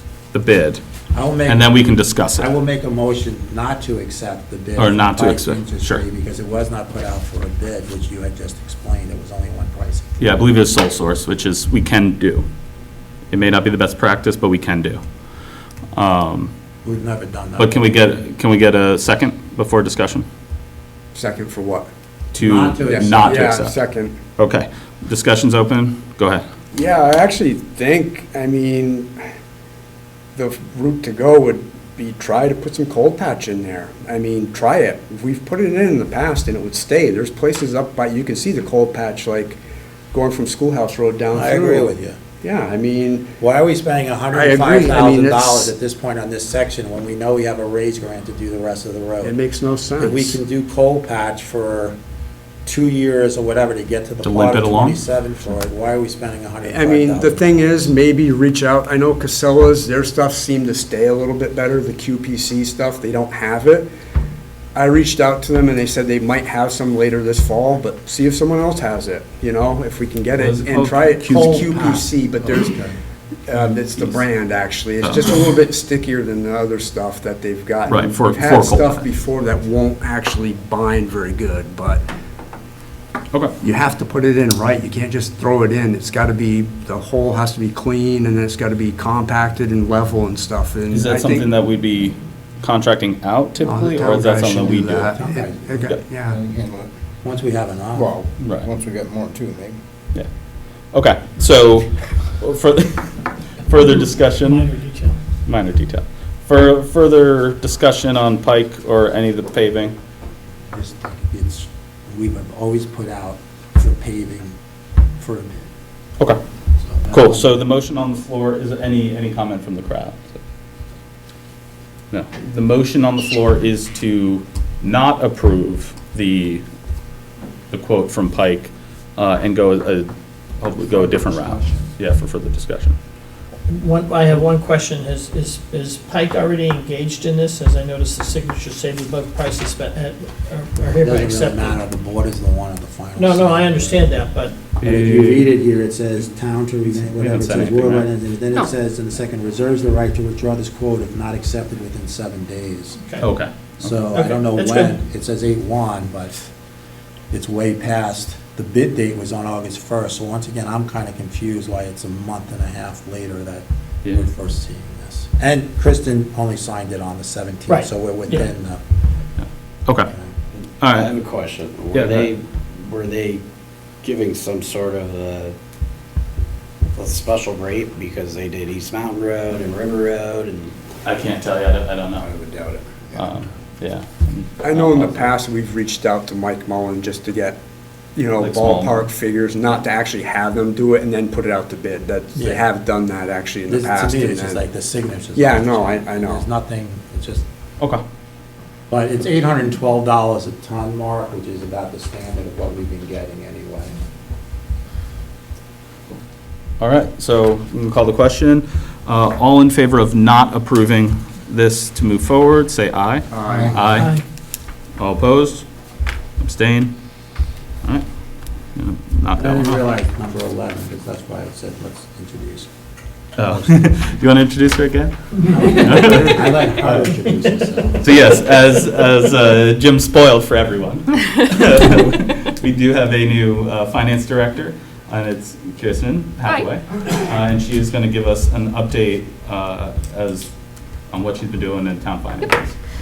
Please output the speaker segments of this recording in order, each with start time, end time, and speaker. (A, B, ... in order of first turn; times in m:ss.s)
0:00.3-0:00.8 A
0:01.1-0:10.1 B
0:01.4-0:02.5 A
0:04.8-0:06.0 A
0:10.2-0:12.5 A
0:13.3-0:15.1 A
0:15.9-0:16.5 A
0:16.8-0:17.9 B
0:17.6-0:20.3 A
0:21.1-0:21.9 C
0:22.3-0:23.8 A
0:22.4-0:23.6 B
0:22.8-0:24.2 C
0:24.4-0:26.5 A
0:26.7-0:29.2 C
0:30.3-0:39.6 C
0:40.1-0:43.3 C
0:41.3-0:42.2 B
0:43.4-0:49.3 B
0:44.3-0:45.7 C
0:49.2-0:50.4 C
0:50.0-0:52.0 B
0:52.6-0:57.7 B
0:54.2-0:55.0 A
0:56.6-1:03.9 C
1:04.8-1:12.8 C
1:10.4-1:11.6 A
1:11.2-1:13.0 B
1:13.5-1:22.0 C
1:17.9-1:19.0 A
1:23.6-1:31.5 C
1:30.9-1:35.1 A
1:33.6-1:36.4 C
1:35.0-1:35.6 B
1:36.2-1:36.9 D
1:37.2-1:38.1 B
1:38.0-1:39.8 D
1:38.4-1:38.7 A
1:40.9-1:44.8 A
1:44.4-1:45.2 E
1:45.4-1:50.0 A
1:50.7-1:54.6 B
1:55.2-1:55.7 B
1:56.8-1:57.5 B
1:57.1-2:00.4 A
2:02.1-2:06.6 A
2:07.7-2:13.0 A
2:10.9-2:11.9 B
2:13.7-2:21.8 E
2:21.0-2:24.1 B
2:23.2-2:24.7 E
2:24.8-2:25.5 A
2:24.8-2:33.0 B
2:27.1-2:28.1 A
2:33.0-2:33.3 E
2:33.2-2:34.0 A
2:33.8-2:36.5 B
2:34.1-2:35.0 E
2:37.3-2:48.8 B
2:47.7-2:48.5 E
2:49.4-2:50.1 A
2:50.5-2:53.4 F
2:50.8-2:51.1 A
2:51.9-2:52.3 A
2:54.0-2:55.6 F
2:56.9-3:00.8 F
3:01.0-3:02.2 A
3:02.2-3:02.9 F
3:03.1-3:05.3 A
3:04.6-3:07.6 C
3:08.2-3:14.6 C
3:08.4-3:09.1 A
3:12.4-3:12.6 B
3:13.7-3:17.4 B
3:15.3-3:16.4 C
3:18.9-3:24.0 B
3:26.8-3:35.7 A
3:33.3-3:34.0 C
3:33.9-3:34.2 E
3:36.4-3:39.8 A
3:39.4-3:42.7 B
3:43.4-3:47.1 A
3:43.4-3:43.8 B
3:45.5-3:48.0 B
3:48.0-4:00.5 A
4:01.1-4:02.8 A